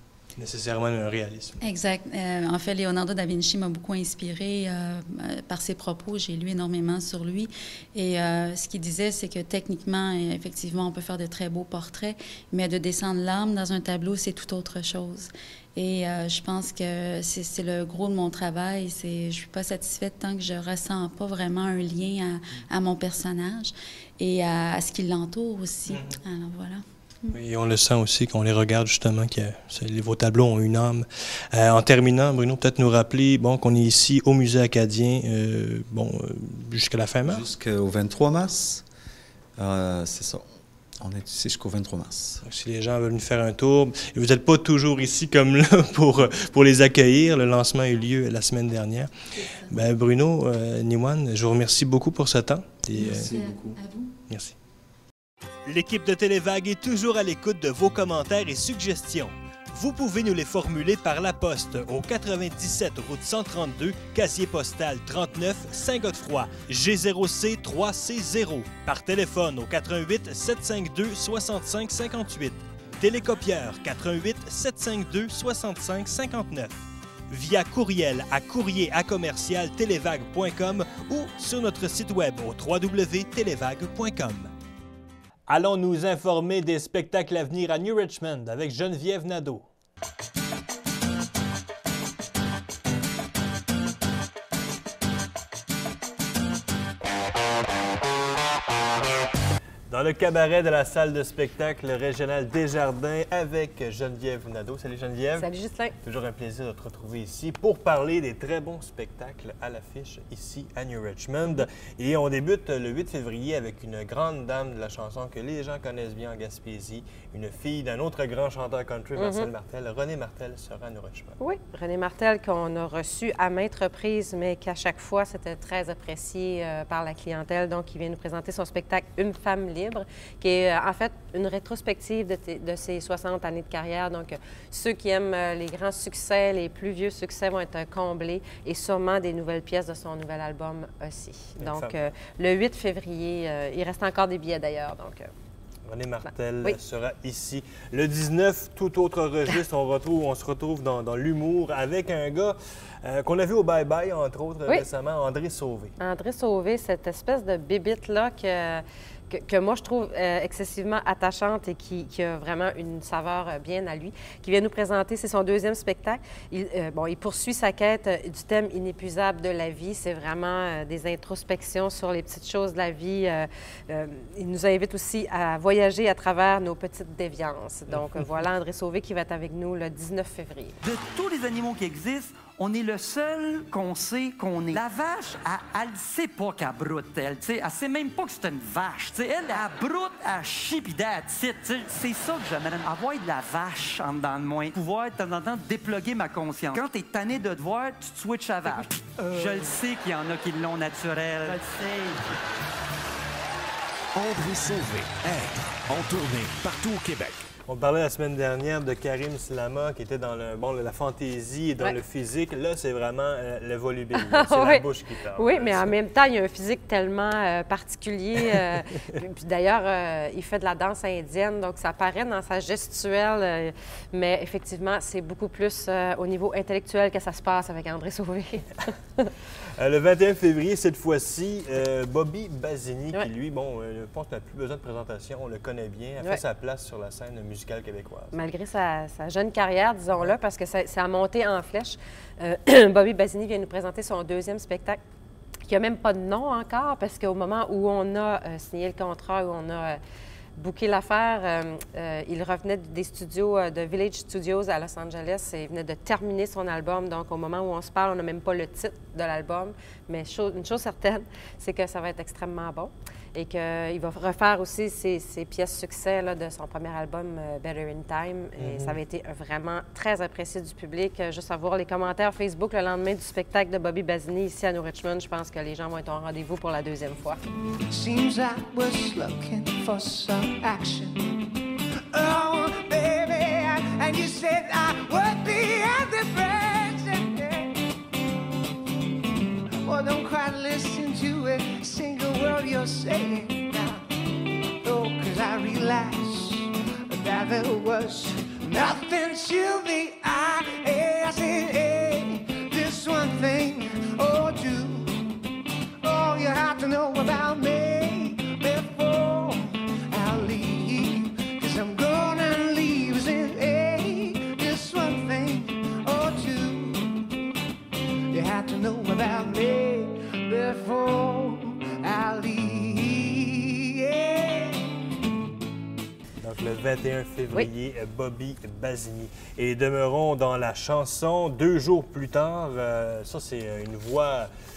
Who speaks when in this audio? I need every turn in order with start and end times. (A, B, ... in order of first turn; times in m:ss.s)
0:00.4-0:01.6 A
0:01.6-0:27.4 B
0:25.9-0:26.2 A
0:27.3-0:37.4 A
0:37.2-0:38.8 C
0:39.6-0:40.4 C
0:41.0-0:42.4 C
0:42.4-0:49.1 A
0:49.3-0:49.8 B
0:49.7-0:54.5 A
0:52.9-0:54.1 B
0:55.6-1:24.5 A
1:25.5-1:29.7 A
1:39.9-1:45.5 A
1:45.4-1:45.9 D
1:46.0-2:01.4 A
1:59.2-1:59.5 D
2:01.4-2:25.3 D
2:21.6-2:22.0 A
2:25.8-2:35.9 A
2:36.0-3:00.8 D
2:57.9-2:58.5 A
3:00.8-3:22.2 E
3:24.1-3:27.4 F
3:27.6-3:36.0 A
3:34.1-3:34.8 D
3:35.4-3:49.3 D
3:38.4-3:38.8 A
3:49.8-3:58.4 A
3:58.3-4:05.0 D
4:00.1-4:00.4 A
4:05.7-4:10.0 D
4:10.6-4:37.4 D
4:28.6-4:29.0 A
4:37.9-4:41.3 G
4:42.1-4:47.8 G
4:49.8-4:54.0 G
4:54.8-5:05.3 G
5:06.0-5:17.3 G
5:18.3-5:24.8 G
5:26.4-5:34.5 A